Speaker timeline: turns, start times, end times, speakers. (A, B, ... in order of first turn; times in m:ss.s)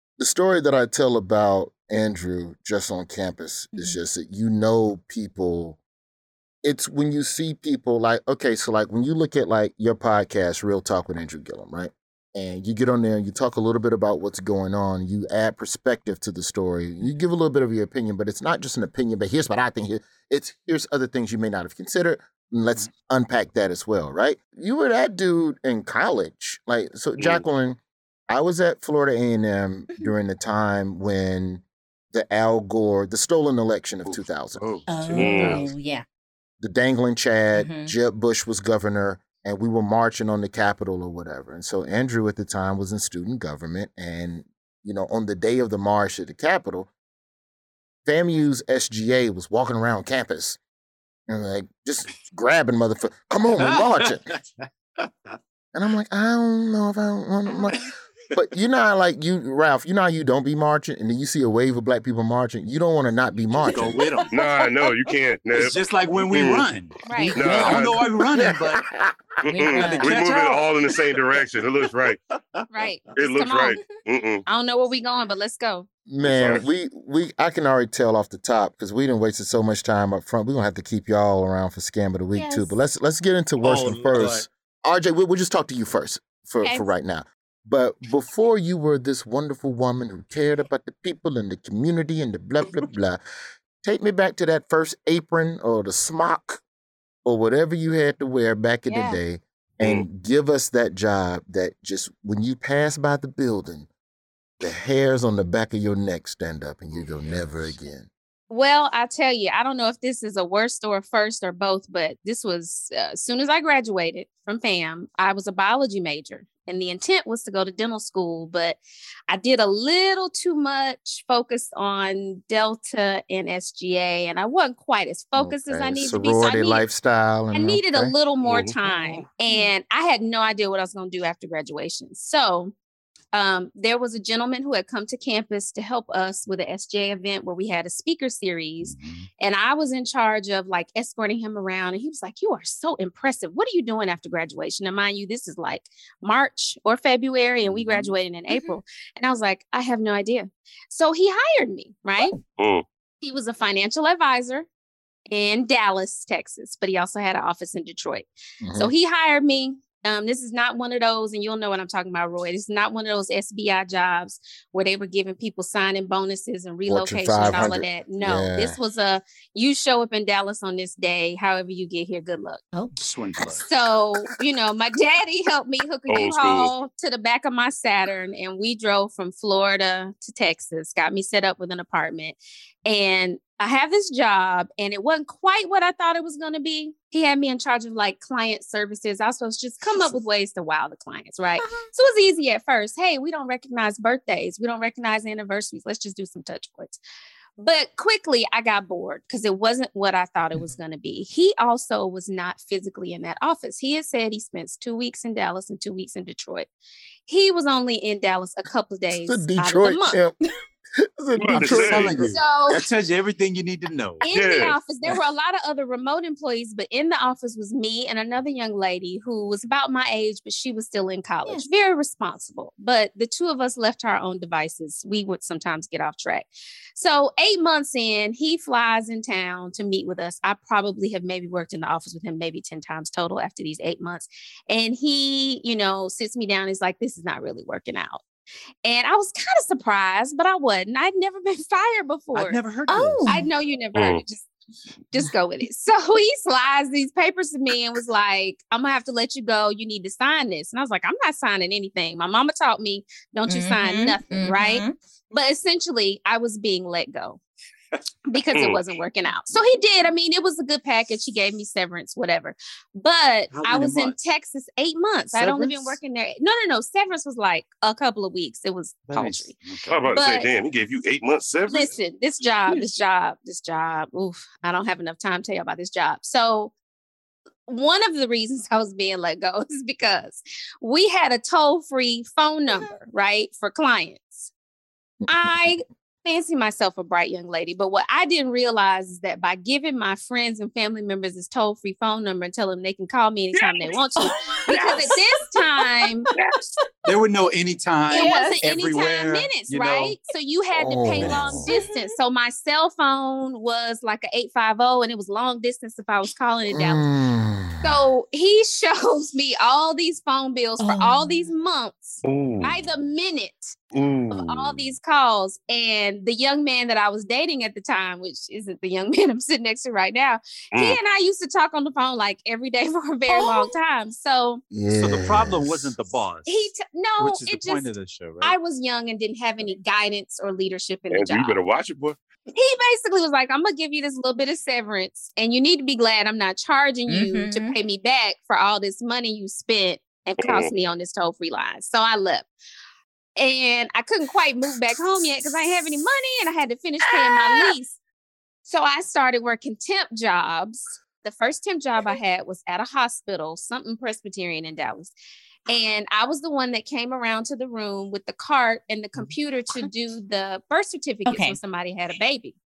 0:00.2-0:05.8 A
0:06.6-0:34.7 A
0:27.2-0:27.4 B
0:34.1-0:35.7 C
0:34.9-0:36.0 D
0:35.2-0:35.6 B
0:36.6-0:46.9 A
0:37.5-0:38.0 D
0:48.0-0:50.6 A
0:51.3-0:54.2 A
0:53.6-0:55.3 C
0:55.7-1:04.0 A
1:03.6-1:04.9 C
1:03.9-1:04.2 D
1:04.3-1:06.6 B
1:05.5-1:08.8 C
1:07.1-1:07.4 E
1:07.1-1:07.4 D
1:07.3-1:09.2 A
1:07.4-1:08.0 B
1:09.4-1:12.2 B
1:09.5-1:10.9 C
1:09.6-1:10.1 D
1:12.7-1:13.8 E
1:13.2-1:14.4 B
1:14.5-1:15.9 E
1:16.1-1:33.2 A
1:16.2-1:16.6 B
1:22.4-1:22.8 D
1:23.6-1:24.5 C
1:26.6-1:26.9 E
1:33.8-1:36.6 A
1:37.2-1:43.9 A
1:38.9-1:39.2 E
1:39.8-1:40.1 B
1:44.6-1:48.1 A
1:48.5-2:06.8 E
2:05.4-2:08.2 A
2:07.5-2:12.7 E
2:08.4-2:08.7 B
2:13.3-2:32.4 E
2:18.8-2:19.3 C
2:28.5-2:28.8 D
2:32.6-2:32.8 B
2:33.2-2:34.7 E
2:35.3-2:52.6 E
2:38.6-2:38.9 A
2:46.9-2:48.8 A
2:53.0-2:53.6 C
2:53.6-3:17.0 E
2:56.1-2:56.7 B
3:11.6-3:11.9 D
3:17.6-3:26.7 E
3:27.3-3:30.2 E
3:29.1-3:30.4 A
3:31.0-3:32.4 A
3:31.4-3:32.1 B
3:31.5-3:34.3 C
3:32.3-3:32.9 E
3:34.2-3:58.2 E
3:34.3-3:34.8 B
3:58.8-4:02.6 E
4:02.3-4:03.4 C
4:02.9-4:03.5 D
4:03.3-4:04.5 E
4:04.0-4:04.2 B
4:05.1-4:17.4 E
4:13.5-4:15.0 D
4:18.3-4:29.6 E
4:23.5-4:24.2 C
4:25.3-4:26.0 C
4:29.1-4:30.1 C
4:29.9-4:31.9 B
4:30.1-4:30.5 E
4:31.7-4:36.7 E
4:37.7-4:44.5 E
4:45.3-4:56.3 E
4:54.2-4:56.7 D
4:54.7-4:55.1 C
4:56.4-5:00.2 C
4:58.1-4:58.6 D
4:58.1-5:07.0 E
5:00.7-5:01.7 A
5:01.3-5:02.1 D
5:06.7-5:07.9 A
5:07.8-5:24.6 E
5:10.8-5:11.5 D
5:12.2-5:12.7 B
5:13.9-5:14.9 B
5:20.7-5:21.0 B
5:23.3-5:23.7 D
5:24.7-5:25.9 A
5:24.9-5:26.6 C
5:26.5-5:31.6 E
5:27.2-5:28.6 C
5:31.1-5:32.2 B
5:32.6-5:42.5 E
5:37.1-5:37.8 D
5:40.4-5:40.7 B
5:43.4-5:48.0 E
5:48.7-5:55.1 E
5:55.7-6:02.6 E
6:01.3-6:01.6 D